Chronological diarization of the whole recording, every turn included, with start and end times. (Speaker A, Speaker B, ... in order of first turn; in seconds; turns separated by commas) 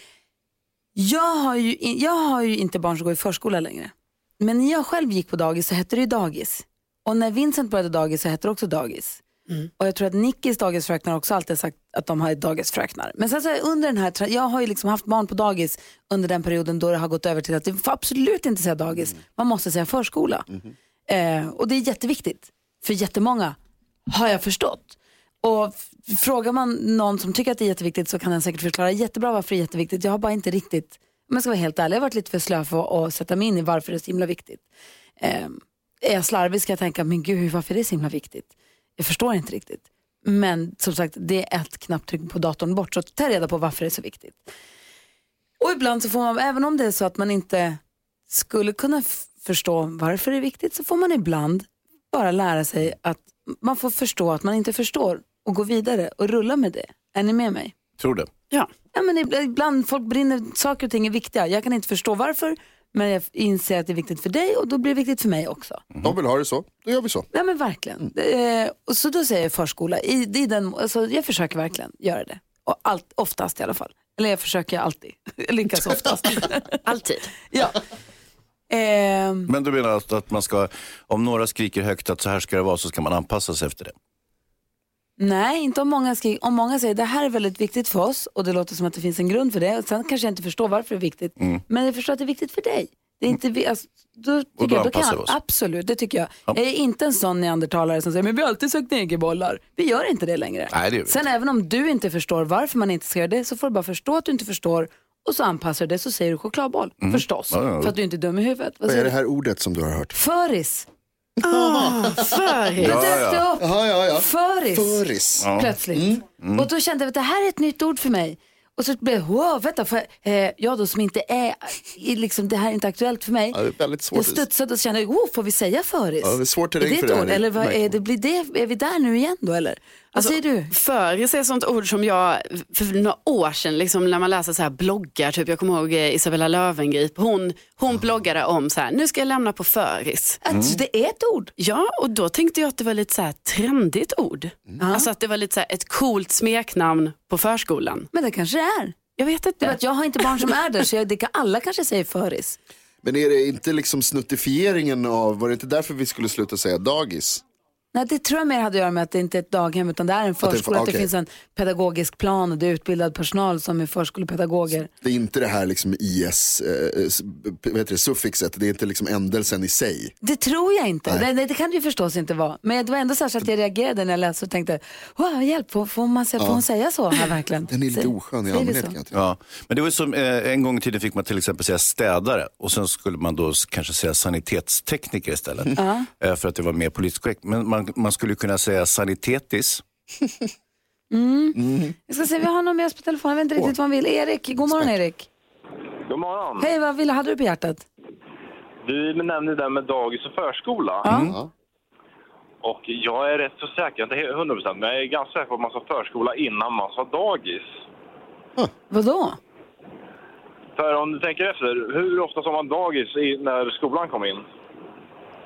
Speaker A: 0.9-9.2, Speaker A: 9.8-20.4, Speaker B: 20.5-20.7, Speaker A: 21.1-23.6, Speaker A: 24.1-34.6, Speaker A: 35.2-44.4, Speaker A: 45.6-57.7, Speaker C: 58.0-58.3, Speaker A: 58.9-65.8, Speaker B: 66.0-67.3, Speaker A: 67.3-76.8, Speaker D: 76.8-77.3, Speaker A: 77.5-77.8, Speaker A: 78.7-79.5, Speaker C: 79.5-84.0, Speaker A: 85.2-109.1, Speaker C: 94.6-95.3, Speaker C: 100.7-101.2, Speaker C: 107.0-107.9, Speaker B: 108.8-110.2, Speaker A: 110.1-110.9, Speaker B: 111.4-112.3, Speaker D: 111.4-113.0, Speaker C: 112.8-113.5, Speaker A: 112.8-113.7, Speaker B: 113.6-116.2, Speaker A: 114.2-123.6, Speaker C: 115.4-115.7, Speaker C: 116.4-116.7, Speaker B: 123.5-124.4, Speaker A: 124.1-130.7, Speaker B: 126.2-128.0, Speaker D: 130.1-140.4, Speaker A: 140.4-141.5, Speaker C: 140.5-140.8, Speaker D: 141.6-148.1, Speaker A: 144.8-145.1, Speaker A: 148.1-149.1, Speaker D: 149.2-149.8, Speaker A: 149.6-152.6, Speaker B: 153.0-157.4, Speaker A: 157.9-164.9, Speaker B: 160.4-161.1, Speaker B: 165.0-170.1, Speaker A: 170.2-178.9, Speaker B: 177.7-179.2, Speaker C: 179.1-189.8, Speaker A: 185.8-186.1, Speaker A: 191.1-195.3, Speaker B: 191.6-191.9, Speaker E: 196.1-196.7, Speaker A: 196.6-197.8, Speaker E: 198.8-201.1, Speaker A: 201.0-201.3, Speaker C: 201.1-201.4, Speaker E: 202.6-207.7, Speaker A: 208.9-209.4, Speaker E: 210.8-214.5